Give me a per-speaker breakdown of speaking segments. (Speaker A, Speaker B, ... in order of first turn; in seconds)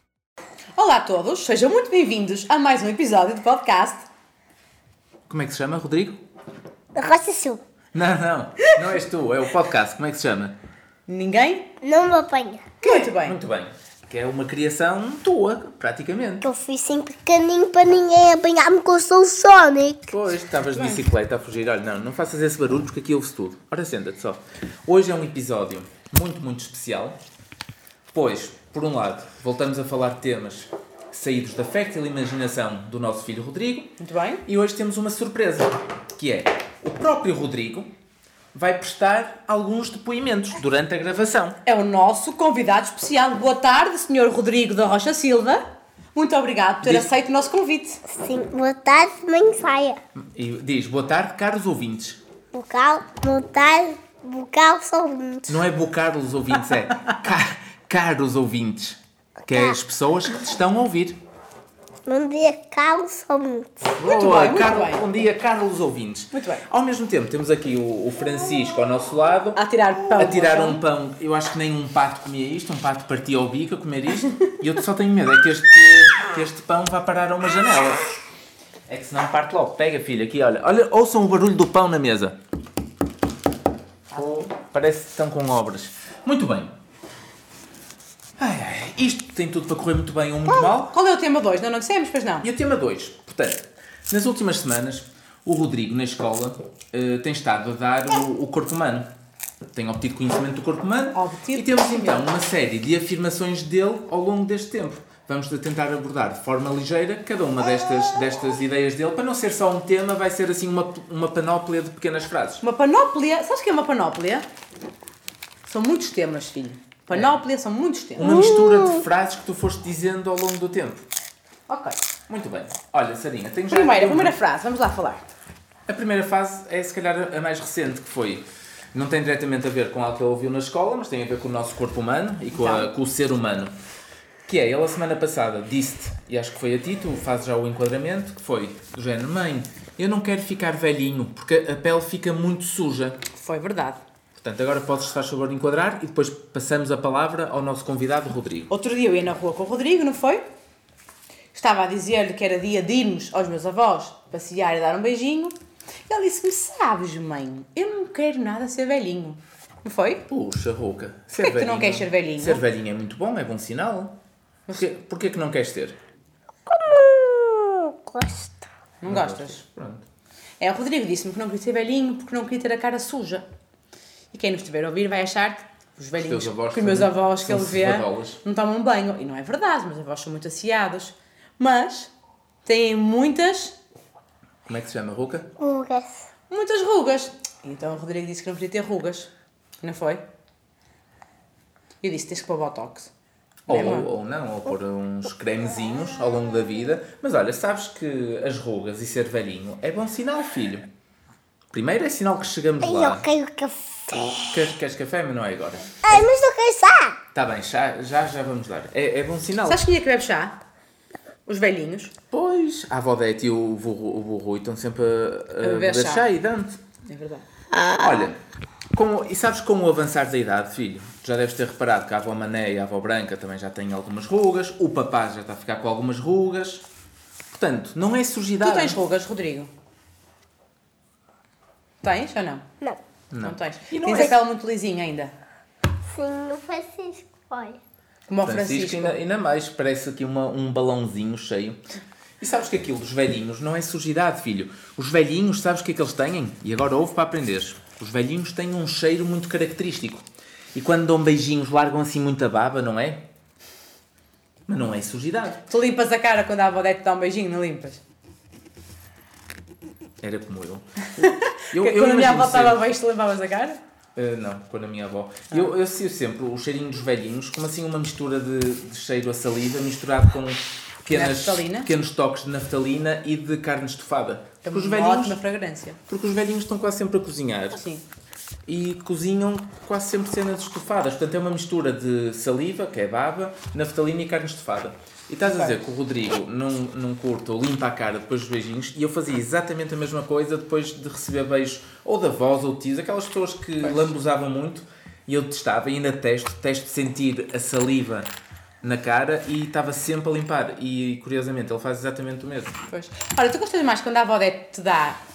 Speaker A: 0.8-4.1, 11.1-11.7, 12.8-13.4, 20.7-21.0, 34.0-34.5, 41.7-45.6, 46.1-48.0, 64.0-65.0, 66.3-66.7, 69.5-70.8, 84.1-84.5, 90.9-92.5, 101.1-102.3, 112.6-114.5, 115.7-118.3, 121.7-122.0, 123.7-125.3, 132.5-132.9, 143.3-144.0, 148.7-150.4, 151.5-155.6, 156.1-160.2, 161.4-162.6, 169.0-169.6, 170.6-173.4, 174.3-182.1, 182.7-183.8, 186.5-189.3, 189.8-190.2, 192.0-193.1, 193.7-194.1, 209.7-210.6, 211.5-212.1, 215.6-216.3, 217.1-217.4, 228.6-229.7, 232.0-232.7, 233.4-235.3, 238.3-239.2, 255.7-258.0, 261.2-263.8, 271.1-271.9, 274.6-276.0, 277.8-278.0, 285.5-285.8, 302.9-305.2
Speaker B: 5.3-6.2, 7.9-10.6, 12.9-16.4, 20.1-27.2, 28.1-37.9, 38.5-41.6, 50.2-52.2, 55.5-61.2, 64.0-69.6, 70.2-78.1, 78.9-82.4, 84.1-86.8, 88.4-90.9, 92.4-99.1, 99.7-112.6, 118.2-121.1, 122.3-124.4, 125.9-133.8, 134.5-143.2, 144.4-148.7, 160.3-164.2, 164.7-166.0, 169.1-170.1, 176.2-178.4, 184.7-185.5, 193.7-200.9, 201.7-203.3, 204.5-206.2, 207.3-209.8, 212.3-216.8, 217.9-218.4, 218.9-226.8, 227.5-229.0, 233.3-234.3, 238.4-241.8, 242.4-253.2, 254.7-255.6, 260.2-262.8, 264.2-275.4, 276.1-277.8, 278.7-298.3, 298.8-302.8
Speaker C: 7.0-7.6, 11.8-12.8, 16.4-20.1, 48.1-50.0, 52.5-55.6, 59.5-59.8, 62.1-64.0, 118.2-119.0, 166.7-168.6, 185.6-186.3, 202.8-204.6, 206.0-207.2, 217.8-218.1, 236.1-237.8